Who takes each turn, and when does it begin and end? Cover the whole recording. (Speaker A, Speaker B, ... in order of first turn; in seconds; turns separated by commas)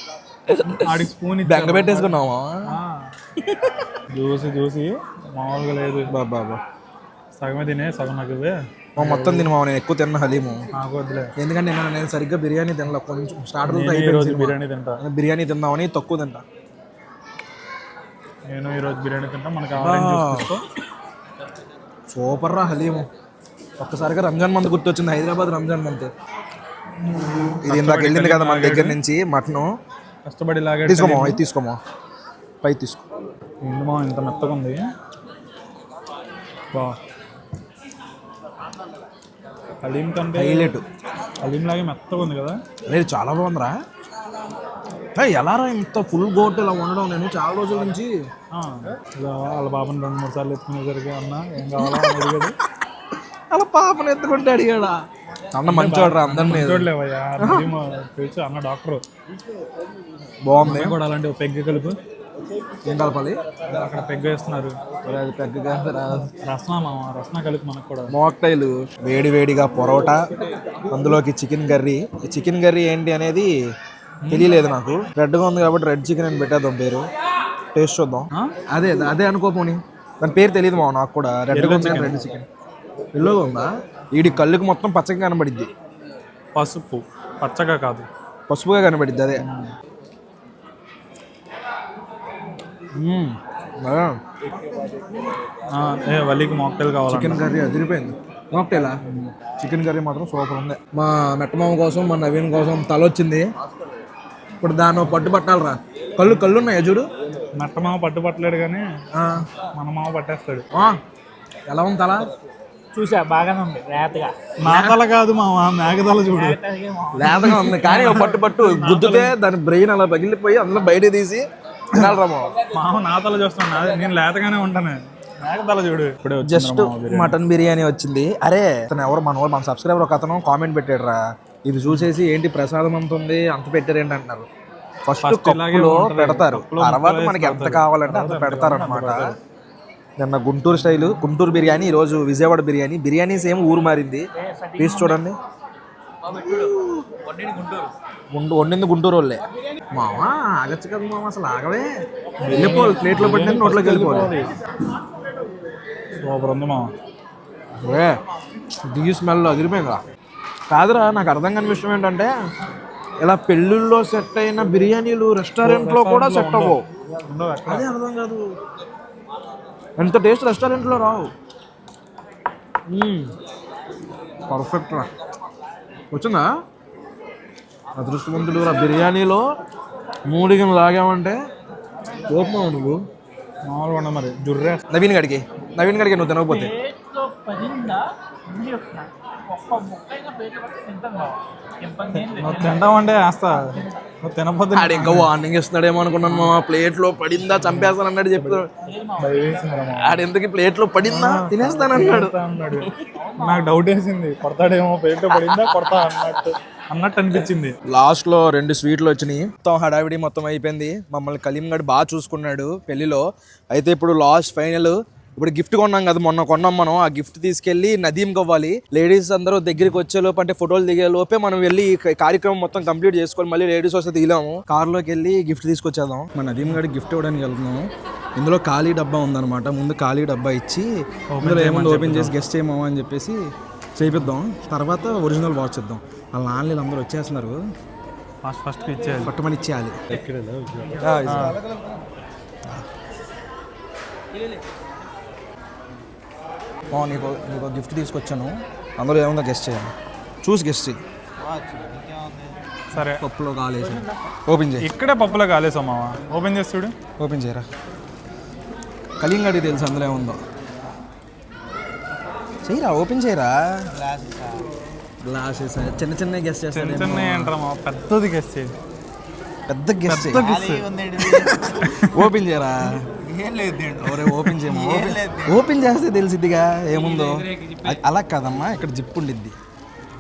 Speaker A: 0.5-2.5, Speaker B: 0.7-2.2, Speaker B: 2.7-3.1, Speaker B: 4.1-6.1, Speaker A: 6.1-6.6, Speaker B: 7.3-9.5, Speaker A: 9.0-10.6, Speaker B: 10.7-11.3, Speaker A: 11.4-16.4, Speaker B: 13.7-15.0, Speaker B: 18.5-20.6, Speaker A: 19.8-20.5, Speaker A: 22.1-23.1, Speaker A: 23.8-26.1, Speaker B: 27.2-29.0, Speaker A: 27.6-29.7, Speaker B: 30.2-31.4, Speaker A: 30.9-31.8, Speaker A: 32.6-33.0, Speaker B: 33.6-34.9, Speaker B: 36.7-37.0, Speaker B: 39.8-40.8, Speaker A: 40.3-40.9, Speaker B: 41.4-42.6, Speaker A: 42.9-43.8, Speaker A: 45.1-48.1, Speaker B: 48.5-52.5, Speaker A: 51.8-52.3, Speaker A: 53.5-55.0, Speaker A: 55.5-56.9, Speaker B: 55.7-59.0, Speaker A: 57.4-57.7, Speaker A: 60.5-61.0, Speaker B: 60.6-62.0, Speaker A: 62.9-63.4, Speaker B: 63.7-64.8, Speaker A: 65.0-66.3, Speaker B: 66.4-68.1, Speaker A: 68.1-70.2, Speaker A: 70.9-73.5, Speaker B: 74.2-74.5, Speaker A: 74.3-77.1, Speaker A: 77.7-82.5, Speaker B: 81.5-82.2, Speaker A: 83.1-85.7, Speaker B: 86.5-88.1, Speaker A: 88.5-89.5, Speaker B: 89.4-89.7, Speaker A: 93.0-94.1, Speaker B: 95.7-97.4, Speaker A: 97.1-103.5, Speaker A: 104.6-107.1, Speaker B: 107.5-108.9, Speaker A: 109.2-109.5, Speaker B: 109.6-110.7, Speaker A: 111.7-112.3, Speaker C: 112.9-114.4, Speaker B: 114.6-116.6, Speaker A: 114.7-115.0, Speaker C: 116.3-117.3, Speaker A: 117.1-122.5, Speaker B: 117.2-119.3, Speaker B: 122.7-127.4, Speaker A: 126.5-134.5, Speaker A: 135.1-139.2, Speaker B: 135.2-139.4, Speaker A: 140.2-144.2, Speaker A: 144.8-145.3, Speaker A: 146.3-147.1, Speaker D: 147.4-147.8, Speaker A: 148.3-149.4, Speaker A: 149.9-151.9, Speaker B: 152.4-154.5, Speaker A: 152.5-154.3, Speaker B: 156.2-156.9, Speaker A: 157.8-158.1, Speaker A: 158.8-160.0, Speaker A: 160.7-162.3, Speaker A: 163.2-166.8, Speaker B: 165.6-167.9, Speaker A: 167.7-168.4, Speaker A: 170.0-171.3, Speaker B: 172.9-173.3, Speaker A: 174.5-175.1, Speaker A: 176.1-176.5, Speaker A: 178.0-179.4, Speaker A: 180.3-181.4, Speaker A: 182.3-183.0, Speaker B: 183.7-184.8, Speaker A: 184.9-186.7, Speaker C: 186.8-192.5, Speaker B: 192.1-195.3, Speaker A: 194.7-198.7, Speaker B: 196.2-196.6, Speaker B: 197.5-198.6, Speaker C: 198.9-199.4, Speaker B: 199.2-200.3, Speaker A: 200.0-202.8, Speaker B: 201.0-207.7, Speaker C: 203.2-203.6, Speaker A: 207.9-230.9, Speaker B: 231.3-232.4, Speaker A: 231.4-233.4, Speaker A: 234.0-237.6, Speaker B: 238.4-239.3, Speaker A: 239.2-240.0, Speaker B: 240.1-241.6, Speaker A: 241.0-241.6, Speaker D: 241.4-242.0, Speaker A: 246.9-249.9, Speaker A: 250.4-251.0, Speaker D: 251.4-252.6, Speaker B: 252.9-253.2, Speaker A: 253.1-254.9, Speaker B: 254.8-256.9, Speaker A: 257.2-257.6, Speaker A: 259.2-260.4, Speaker A: 262.6-263.9, Speaker D: 263.9-264.6, Speaker A: 265.2-267.5, Speaker B: 266.7-268.7, Speaker A: 269.7-270.6, Speaker B: 270.1-272.3, Speaker D: 270.3-271.8, Speaker A: 271.4-273.1, Speaker D: 273.2-275.7, Speaker A: 274.0-279.6